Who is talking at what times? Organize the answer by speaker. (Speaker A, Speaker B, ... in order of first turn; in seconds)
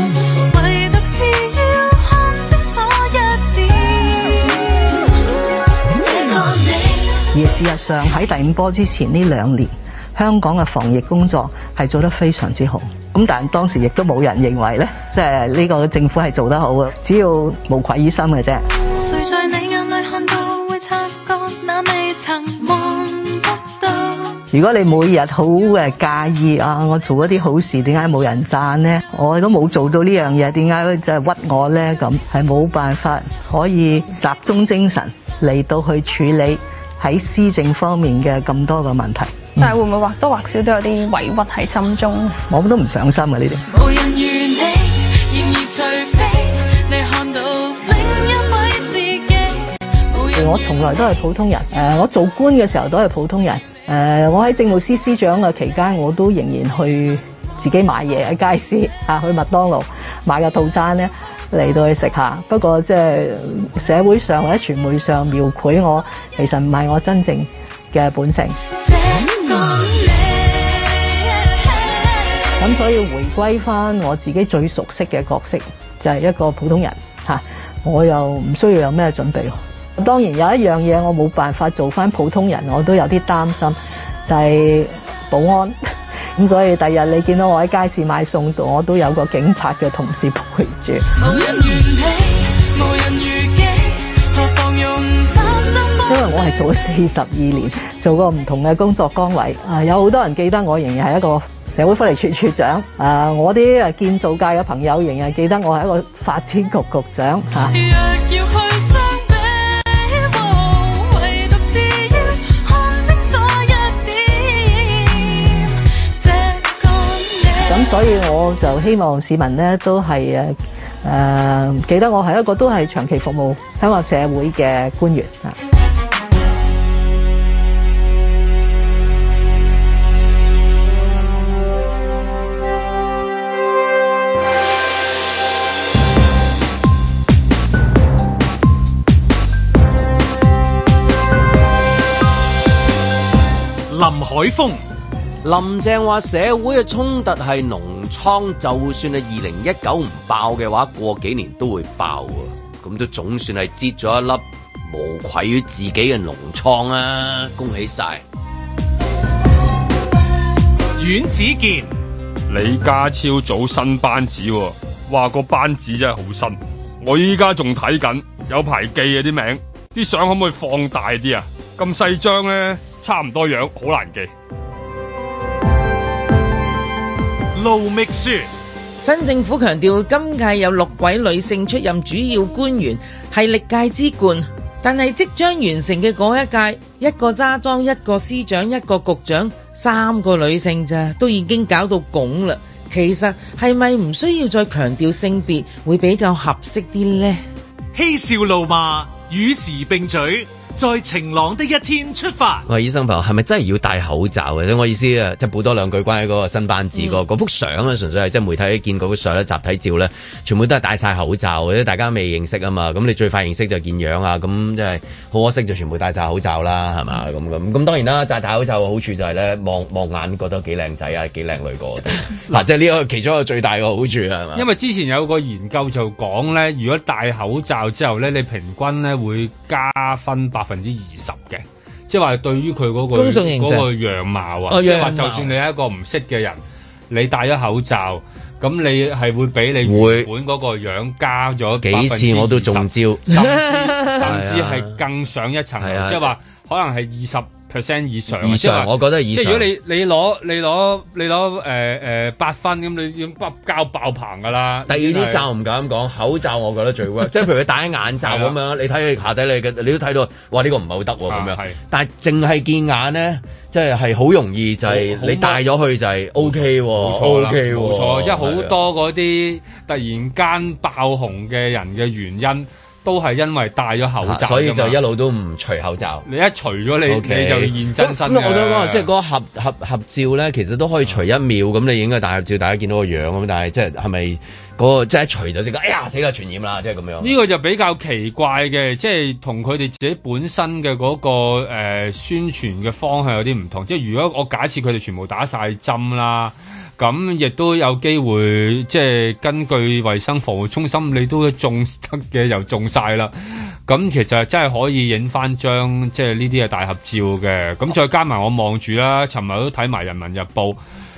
Speaker A: 0.5-7.3, 18.9-24.4, 43.7-51.1, 68.7-72.5, 91.2-96.6, 107.7-118.0
Speaker B: 7.3-18.6, 24.5-39.4, 42.5-43.6, 50.4-68.6, 72.6-85.8, 86.4-91.1, 96.1-107.8, 117.7-125.6
Speaker C: 39.6-42.4
Speaker D: 143.9-144.8, 161.0-161.9, 177.5-178.5, 197.9-202.7
Speaker E: 145.4-158.2, 202.7-224.7, 234.7-235.5, 239.8-240.3, 241.8-243.7, 244.2-245.0, 245.8-246.3, 248.3-249.7, 254.9-268.8, 274.2-276.3, 277.1-287.4
Speaker F: 162.5-174.3, 224.6-255.4, 258.2-258.6, 261.3-261.8, 264.9-265.6, 266.4-275.0, 276.3-279.1, 287.2-303.3, 303.9-310.8
Speaker G: 179.0-197.4, 233.1-233.9, 243.3-244.2